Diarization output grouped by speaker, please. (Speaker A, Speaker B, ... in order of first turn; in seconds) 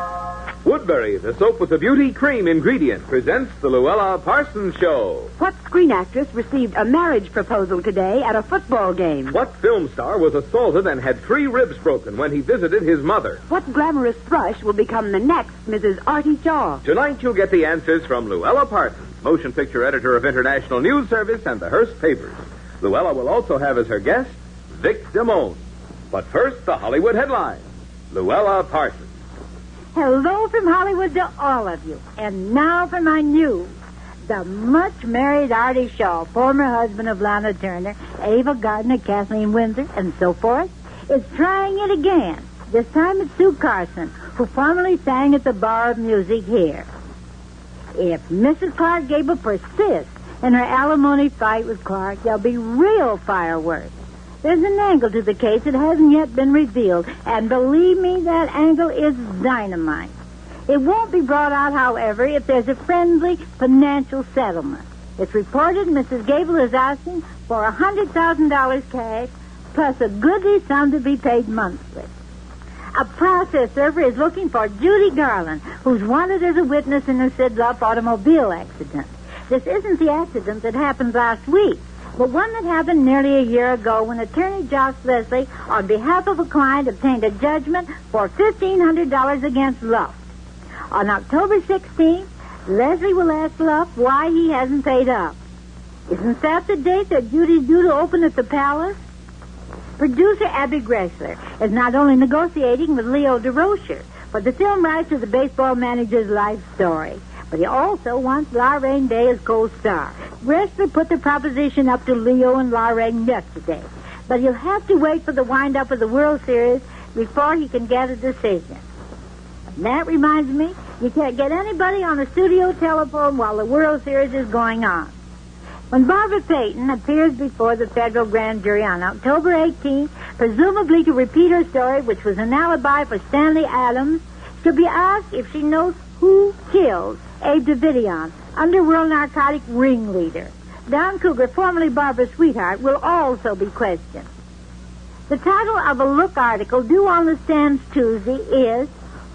Speaker A: 0.7-5.3, 9.3-13.4, 16.8-25.6, 26.1-29.1
Speaker B: 5.4-9.2, 13.5-16.8
Speaker C: 29.9-33.7, 34.3-46.9, 48.0-53.9, 54.4-60.1, 60.7-72.1, 72.9-90.2, 90.9-95.4, 96.1-99.0, 100.0-118.8, 119.8-125.2, 125.9-144.3, 145.3-148.9